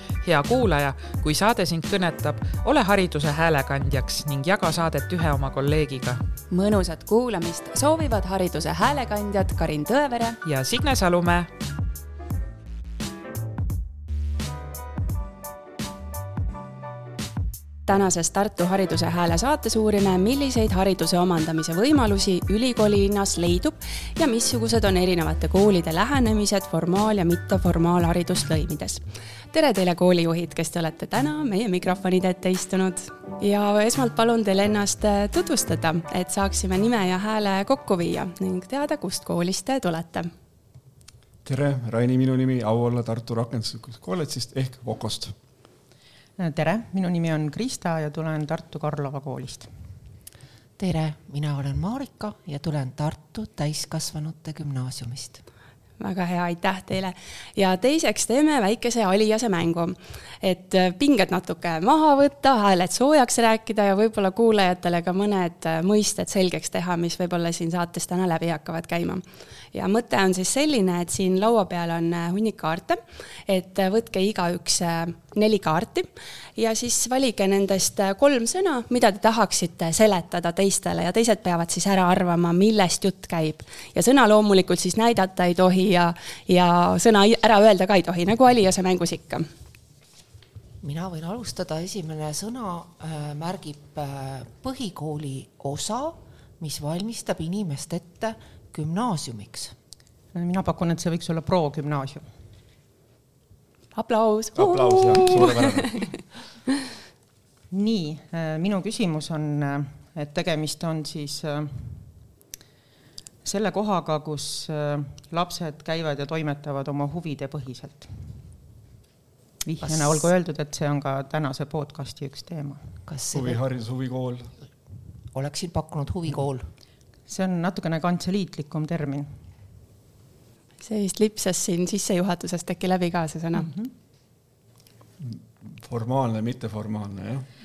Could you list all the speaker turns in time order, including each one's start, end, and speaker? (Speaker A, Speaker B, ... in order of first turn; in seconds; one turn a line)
Speaker A: 0.2-6.2
Speaker B: 6.5-10.4
Speaker A: 10.4-11.5
Speaker B: 17.9-40.3
Speaker C: 41.5-45.3
Speaker D: 46.4-49.7
Speaker E: 50.8-55.4
Speaker B: 56.0-89.5
Speaker E: 90.8-99.8
Speaker D: 100.3-102.2
Speaker B: 103.9-106.1
Speaker C: 104.5-106.2
Speaker D: 107.7-112.1
Speaker D: 113.4-118.4
Speaker D: 119.6-122.8
Speaker E: 119.8-120.3
Speaker E: 123.1-123.6
Speaker C: 123.3-124.5
Speaker E: 125.3-126.7
Speaker D: 127.3-129.4
Speaker B: 130.8-133.7
Speaker D: 133.6-133.9
Speaker C: 135.2-137.5